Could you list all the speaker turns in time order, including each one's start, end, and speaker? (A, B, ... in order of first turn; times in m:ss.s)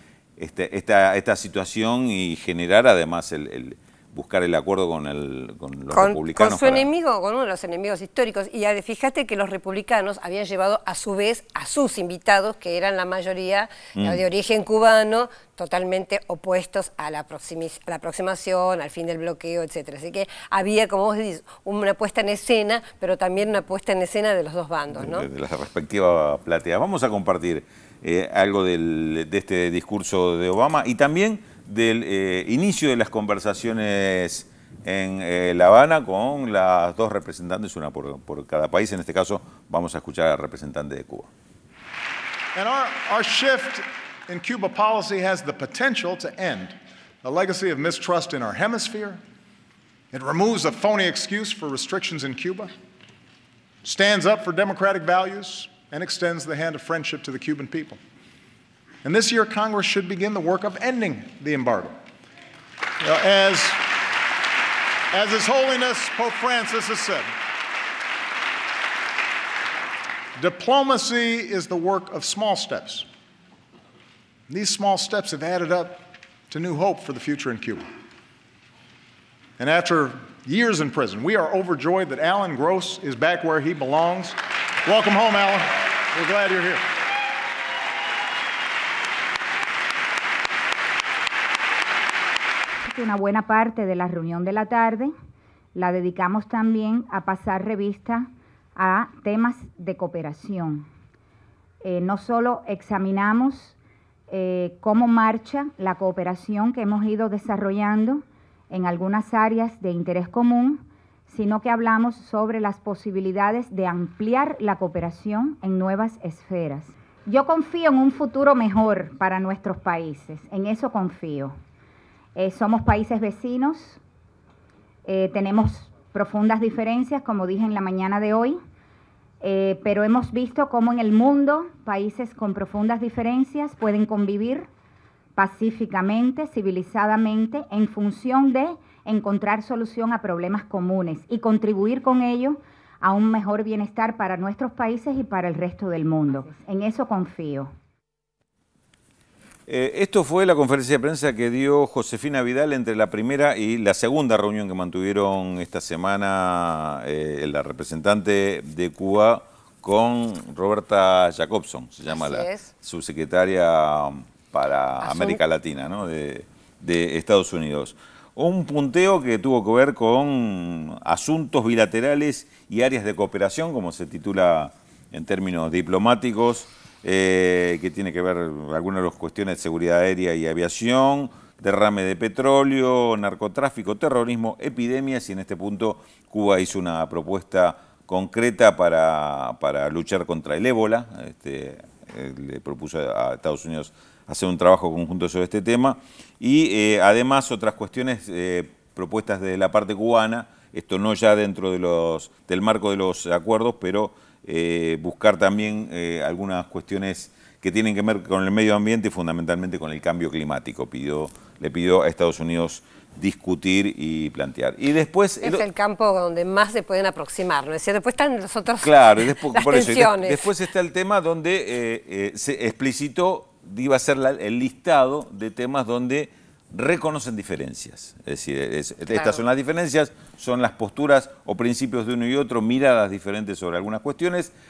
0:00.4-0:06.8 A
0:05.9-0:25.3 B
0:14.0-0:14.2 A
0:24.9-0:41.3 A
0:42.5-0:49.2 C
0:50.1-0:52.7 C
0:53.8-0:58.0 C
0:59.0-1:01.9 C
1:03.0-1:03.9 C
1:05.1-1:07.3 C
1:10.4-1:13.0 C
1:14.5-1:17.8 C
1:19.6-1:26.8 C
1:32.8-1:35.1 D
1:35.7-1:40.9 D
1:41.8-1:43.8 D
1:44.3-2:01.5 D
2:02.3-2:04.0 D
2:05.0-2:08.6 D
2:09.4-2:14.7 D
2:15.4-2:27.7 D
2:29.7-3:35.6 A
2:42.1-2:42.7 B
2:45.0-2:45.4 B
3:35.4-3:40.5 B
3:38.8-3:54.5 A
3:49.1-3:49.4 B